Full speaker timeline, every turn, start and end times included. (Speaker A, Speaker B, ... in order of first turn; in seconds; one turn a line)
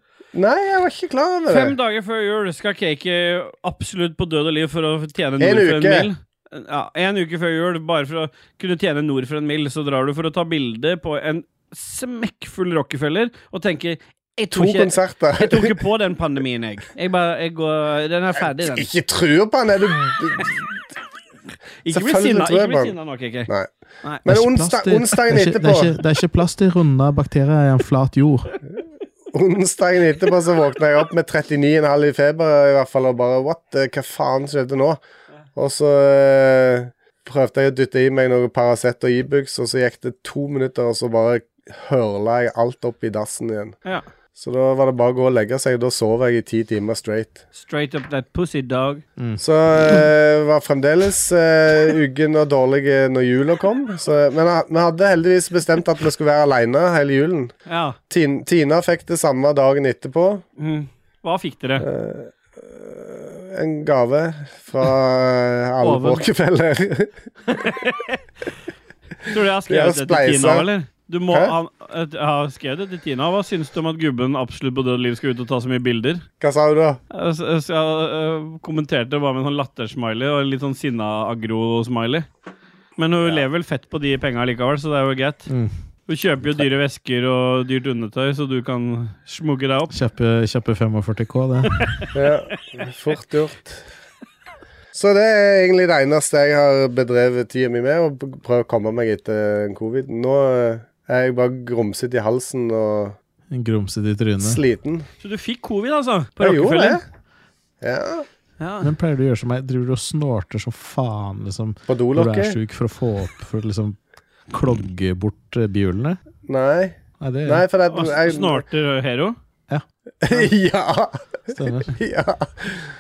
Speaker A: 0.3-1.8
Speaker B: 1.5-18.9
Speaker A: 5.4-6.1
Speaker A: 14.5-15.8
Speaker A: 18.6-20.7
Speaker B: 21.9-23.5
Speaker A: 21.9-22.9
Speaker A: 24.2-25.9
Speaker C: 24.3-28.5
Speaker A: 29.3-35.0
Speaker A: 35.6-43.8
Speaker A: 44.4-47.4
Speaker B: 47.5-49.0
Speaker C: 49.2-49.4
Speaker A: 49.4-57.5
Speaker B: 57.7-58.0
Speaker A: 58.1-60.4
Speaker B: 60.6-61.9
Speaker A: 61.8-67.1
Speaker B: 65.8-66.2
Speaker B: 67.5-68.2
Speaker B: 69.2-76.2
Speaker A: 69.7-70.7
Speaker A: 76.4-77.0
Speaker B: 77.1-82.3
Speaker B: 83.0-85.5
Speaker C: 85.5-85.7
Speaker B: 86.1-89.9
Speaker C: 89.9-91.9
Speaker A: 92.1-93.8
Speaker A: 94.9-103.2
Speaker C: 103.5-104.6
Speaker A: 104.4-105.1
Speaker B: 105.2-107.0
Speaker A: 106.4-107.0
Speaker A: 107.8-108.3
Speaker B: 108.6-108.9
Speaker C: 108.8-114.0
Speaker A: 111.9-112.6
Speaker C: 114.5-116.2
Speaker A: 116.5-118.6
Speaker C: 117.2-117.6
Speaker B: 117.9-119.4
Speaker A: 120.2-122.8
Speaker C: 121.5-121.9